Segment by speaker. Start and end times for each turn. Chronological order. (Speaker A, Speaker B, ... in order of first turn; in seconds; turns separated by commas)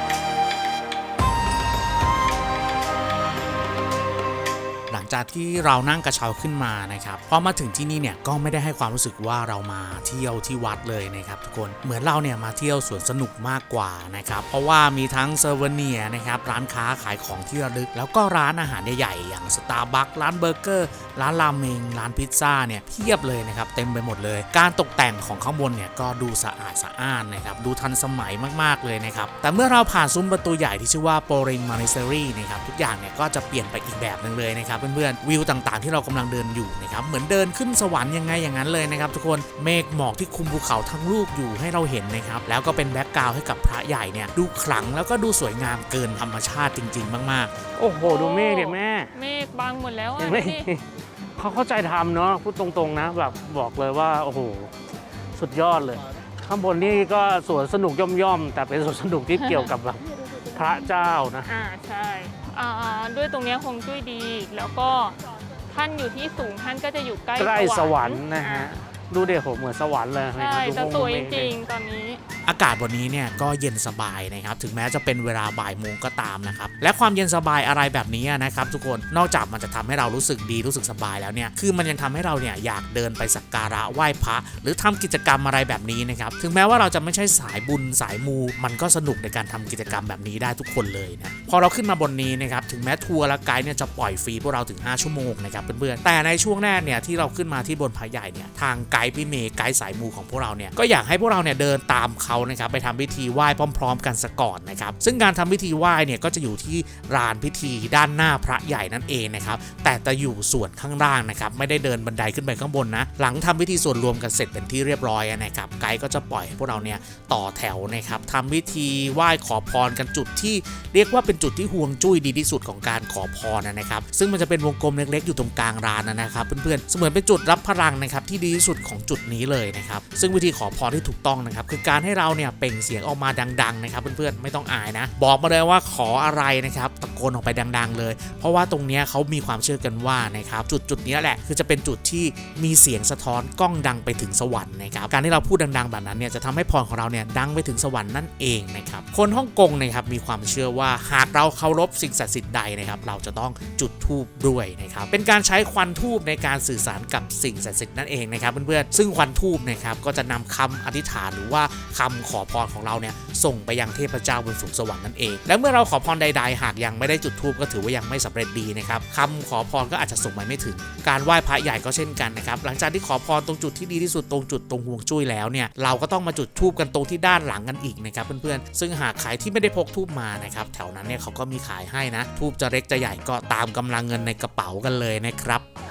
Speaker A: 4.9-47.5, Speaker B: 47.8-49.1, Speaker C: 48.0-50.7, Speaker B: 50.2-50.8, Speaker B: 51.4-54.7, Speaker B: 55.4-61.5, Speaker C: 59.4-59.7, Speaker C: 61.5-65.2, Speaker C: 65.7-68.7, Speaker B: 67.4-71.5, Speaker C: 70.4-72.2, Speaker A: 72.5-185.7